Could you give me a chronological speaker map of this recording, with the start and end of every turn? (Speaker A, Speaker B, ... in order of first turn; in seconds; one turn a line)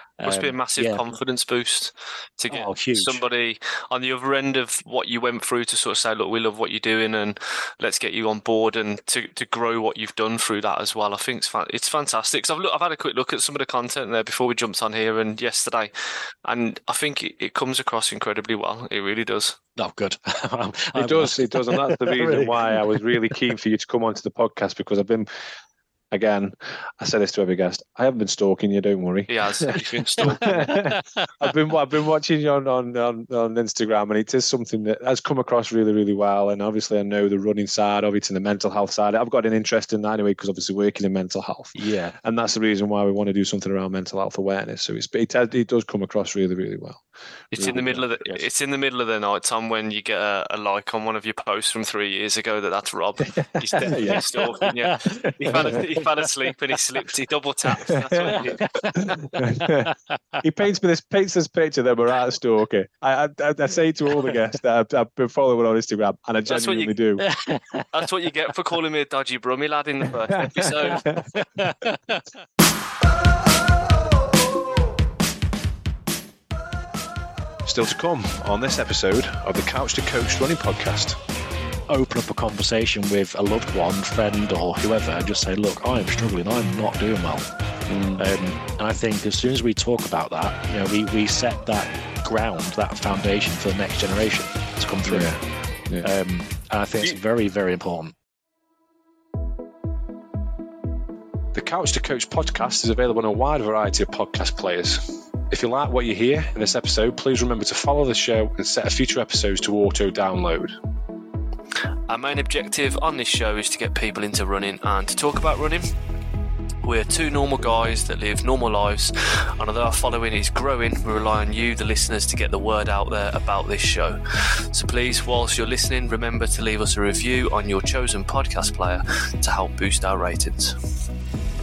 Speaker A: 0.2-1.0
Speaker B: 0.2-15.9
Speaker A: 2.5-3.2
Speaker B: 16.4-19.6
Speaker A: 19.8-23.5
Speaker C: 20.9-25.3
Speaker C: 26.1-48.4
Speaker B: 29.3-30.7
Speaker A: 30.2-31.5
Speaker A: 41.7-42.1
Speaker B: 47.5-58.8
Speaker C: 53.8-54.5
Speaker A: 53.8-56.0
Speaker C: 55.2-55.8
Speaker C: 57.8-58.4
Speaker A: 58.4-60.2
Speaker C: 58.9-67.2
Speaker B: 66.5-66.9
Speaker A: 67.2-67.9
Speaker B: 67.9-71.1
Speaker C: 70.4-71.3
Speaker A: 70.8-72.3
Speaker C: 77.6-81.2
Speaker A: 81.9-87.5
Speaker C: 87.9-88.3
Speaker A: 88.2-95.3
Speaker C: 95.0-96.1
Speaker A: 96.0-98.1
Speaker C: 101.5-110.8
Speaker B: 112.1-115.9
Speaker B: 116.8-130.8